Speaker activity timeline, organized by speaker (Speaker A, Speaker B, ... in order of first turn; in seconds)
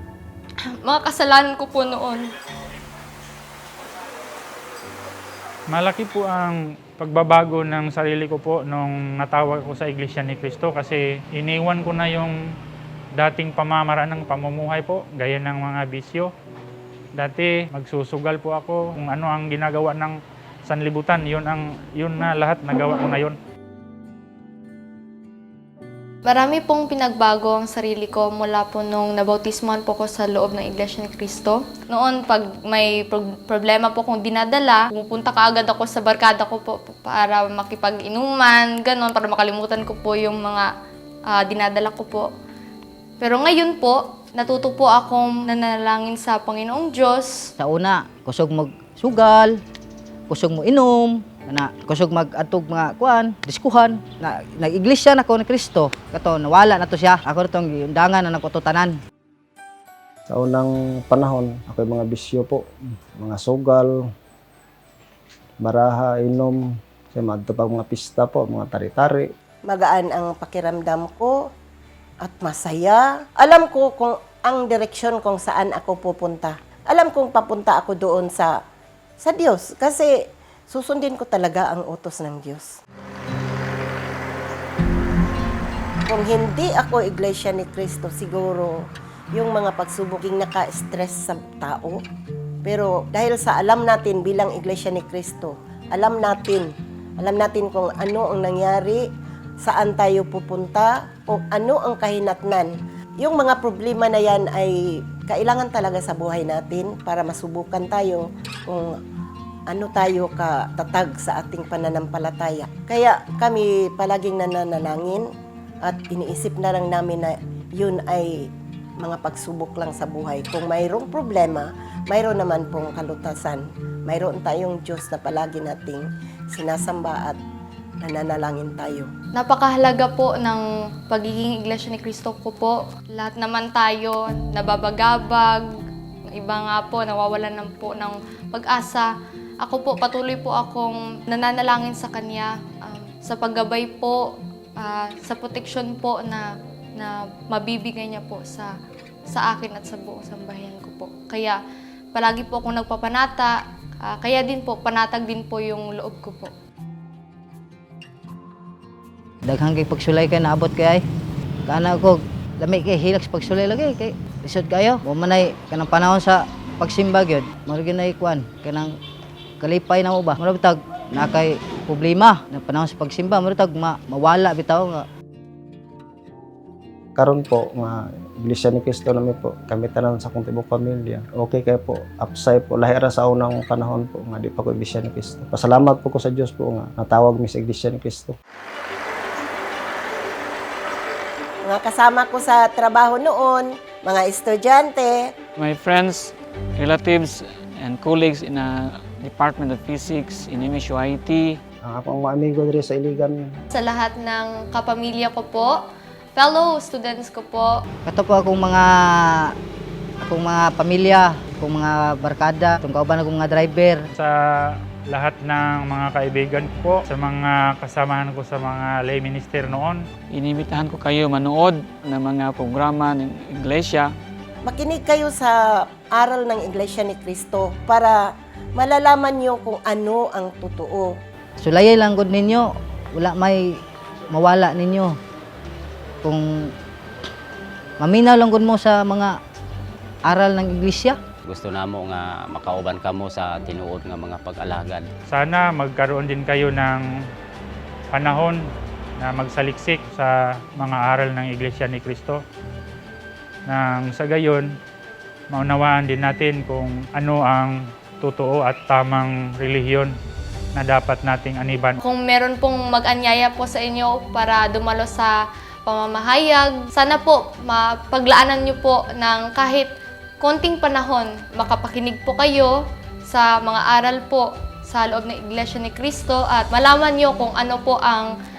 Speaker A: 0.7-2.3, 26.2-40.7, 41.3-42.3, 43.2-47.5, 129.3-135.7, 136.3-139.1, 139.6-148.7, 149.3-151.6, 152.1-156.5, 203.7-205.8, 206.3-207.8, 262.0-265.3, 265.9-269.9, 270.4-278.3
Speaker B: 5.7-12.3, 13.2-16.3, 17.2-23.4, 215.1-220.0, 245.3-247.0, 248.1-248.6, 249.2-252.4, 253.7-254.7, 255.5-260.1, 260.7-262.0
Speaker C: 47.6-49.6, 50.3-59.0, 159.4-161.0, 161.7-168.9, 169.6-175.1, 208.1-209.5, 210.2-214.0, 231.6-233.8, 234.3-235.2, 236.2-236.7, 238.0-239.3, 240.3-241.2
Speaker D: 60.3-64.0, 65.6-66.6, 67.1-69.3, 177.2-188.3, 201.8-203.5
Speaker E: 69.7-71.5, 72.2-78.6, 79.2-82.7, 86.1-92.0, 92.6-99.1, 99.6-109.0, 109.7-115.3, 115.8-127.4, 128.0-129.1, 191.6-195.3, 224.6-231.2
Speaker F: 195.6-201.6, 220.3-224.1
Speaker G: 241.5-245.1